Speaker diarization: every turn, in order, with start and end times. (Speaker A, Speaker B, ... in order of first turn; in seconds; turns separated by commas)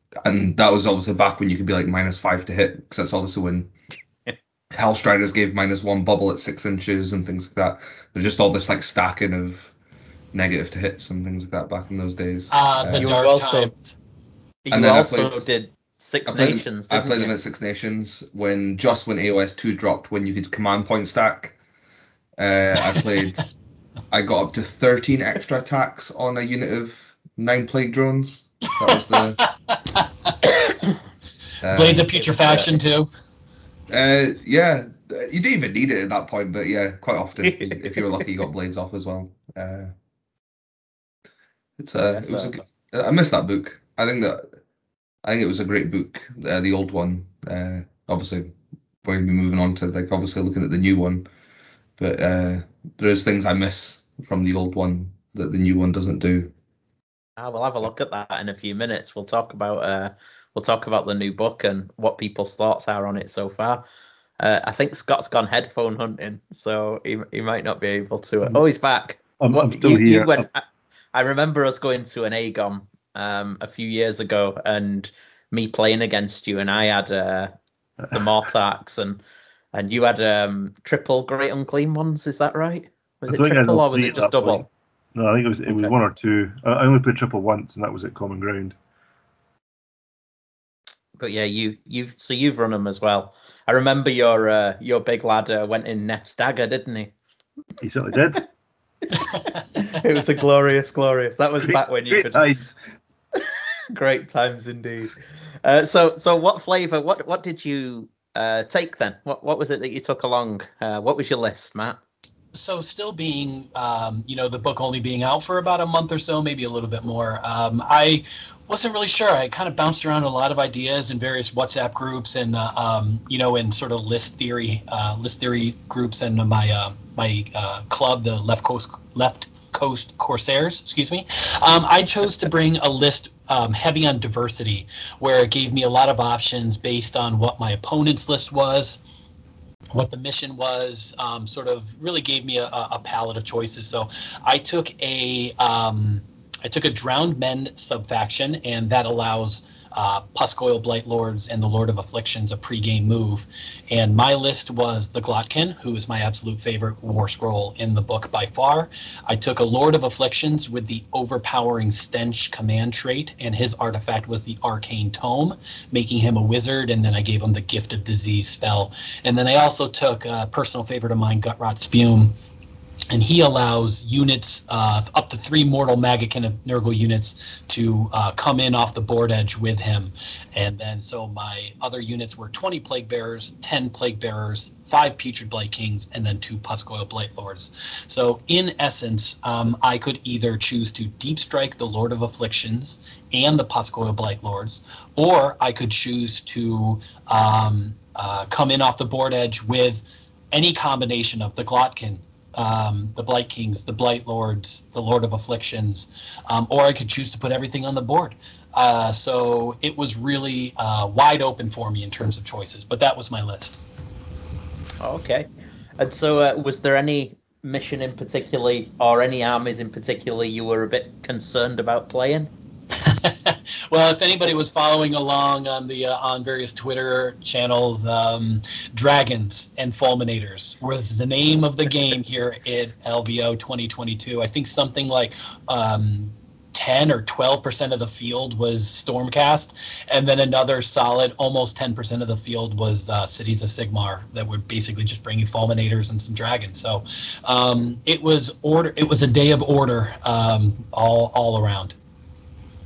Speaker A: 0.2-3.7, Speaker A: 4.7-9.7, Speaker A: 10.3-13.1, Speaker B: 12.5-13.9, Speaker C: 13.0-13.7, Speaker C: 14.7-17.3, Speaker A: 14.7-15.5, Speaker A: 16.3-21.6, Speaker A: 22.4-23.5, Speaker A: 24.1-29.4, Speaker B: 29.4-30.3, Speaker A: 31.6-32.1, Speaker B: 31.7-33.1, Speaker C: 32.2-32.7, Speaker A: 33.9-39.9, Speaker A: 41.8-44.4, Speaker C: 42.1-42.6, Speaker A: 45.2-48.5, Speaker A: 49.0-51.2, Speaker A: 52.0-56.5, Speaker C: 57.4-63.8, Speaker C: 64.4-77.5, Speaker D: 69.4-70.4, Speaker C: 78.1-79.2, Speaker C: 79.7-84.6, Speaker D: 83.3-88.7, Speaker C: 85.7-85.9, Speaker C: 91.2-97.1, Speaker D: 97.8-98.5, Speaker B: 99.3-100.0, Speaker C: 99.8-102.5, Speaker D: 101.6-102.7, Speaker C: 103.9-112.0, Speaker B: 112.5-139.0, Speaker B: 139.9-172.3, Speaker B: 173.1-213.8, Speaker C: 215.0-222.5, Speaker B: 223.0-251.9